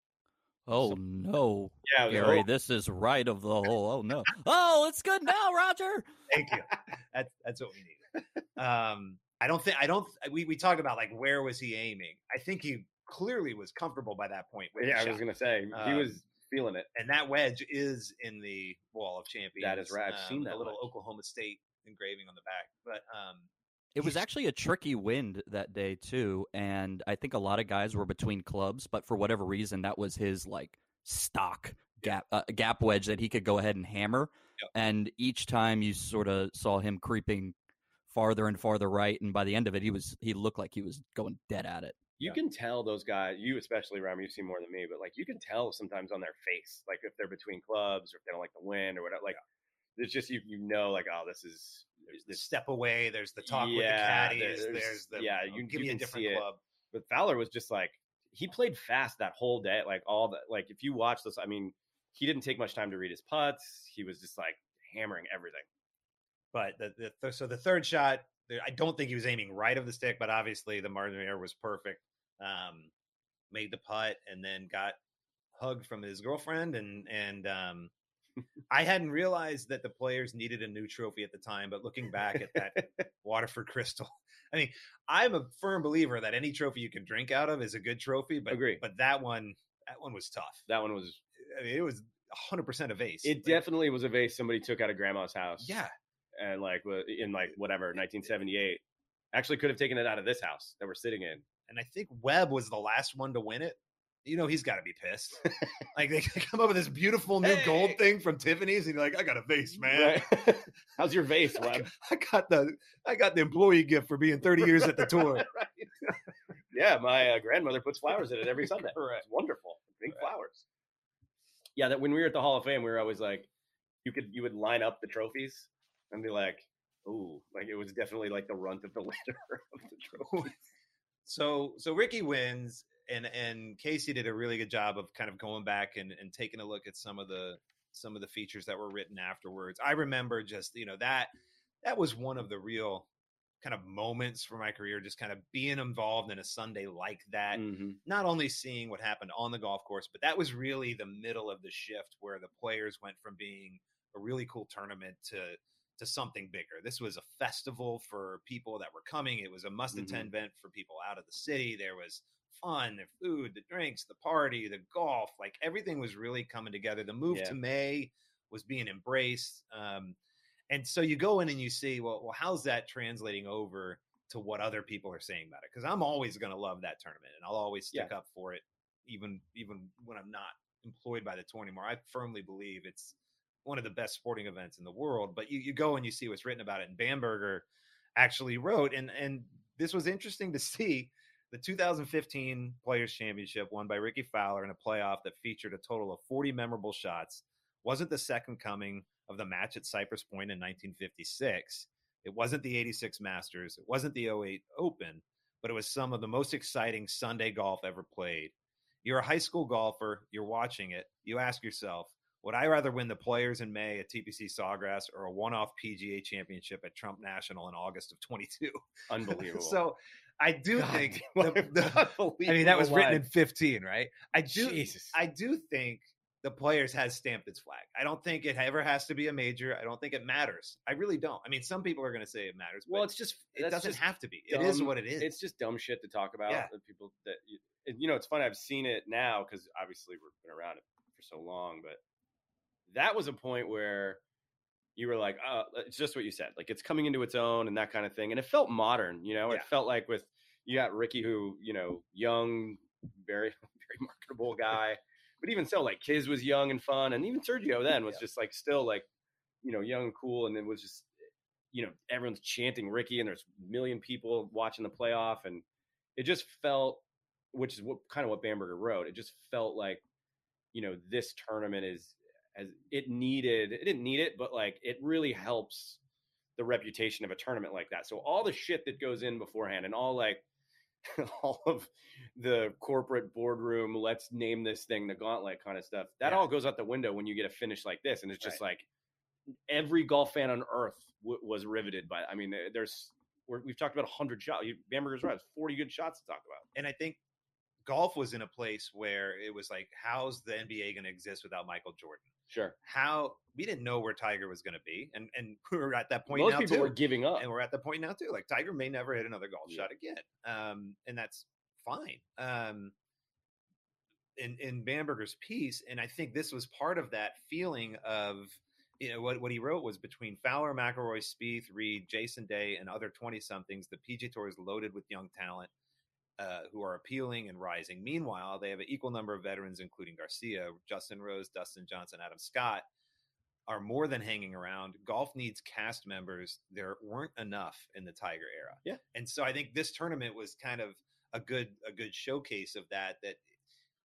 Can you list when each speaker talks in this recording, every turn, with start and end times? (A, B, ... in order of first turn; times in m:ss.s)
0:00.6-0:06.1 A
0:01.8-0:02.4 B
0:06.3-0:16.2 C
0:14.8-0:16.9 B
0:16.9-0:23.5 C
0:19.6-0:20.9 B
0:24.0-0:37.5 A
0:38.1-0:42.0 A
0:42.2-0:49.4 B
0:50.0-0:52.4 B
0:52.1-0:56.6 C
0:53.4-1:05.6 B
1:06.5-1:12.9 C
1:13.5-1:15.0 C
1:15.6-1:17.9 C
1:18.7-1:30.6 C
1:28.5-1:28.8 B
1:30.7-1:31.2 B
1:31.4-1:33.6 C
1:33.2-1:35.7 B
1:35.6-1:35.9 C
1:36.4-1:38.8 B
1:39.3-1:41.4 B
1:41.7-1:50.6 C
1:47.4-1:48.0 B
1:49.9-1:51.9 B
1:51.6-1:55.5 C
1:54.8-1:55.9 B
1:56.7-2:00.6 B
1:59.0-1:59.2 C
2:01.8-2:03.5 B
2:04.0-2:10.5 B
2:11.3-2:21.3 C
2:21.8-2:23.1 C
2:23.6-2:50.2 C
2:27.5-2:28.0 B
2:39.9-2:40.3 B
2:47.3-2:47.6 B
2:50.7-3:28.5 C
3:29.0-3:55.4 C
3:39.1-3:39.8 B
3:40.7-3:43.3 B
3:44.5-3:45.2 B
3:52.9-4:02.0 B
4:02.9-4:04.2 B
4:05.0-4:19.0 B
4:19.6-4:21.1 B
4:21.7-4:25.6 B
4:26.2-4:30.0 B
4:30.7-4:36.0 B
4:36.6-4:40.4 B
4:41.0-4:48.9 B
4:46.2-4:46.5 C
4:49.7-4:56.6 B
4:56.7-4:57.2 C
4:57.8-5:02.3 C
5:02.5-5:02.8 B
5:02.8-5:12.9 C
5:06.3-5:07.5 B
5:14.4-5:25.7 C
5:26.4-5:32.9 C
5:33.7-5:43.4 C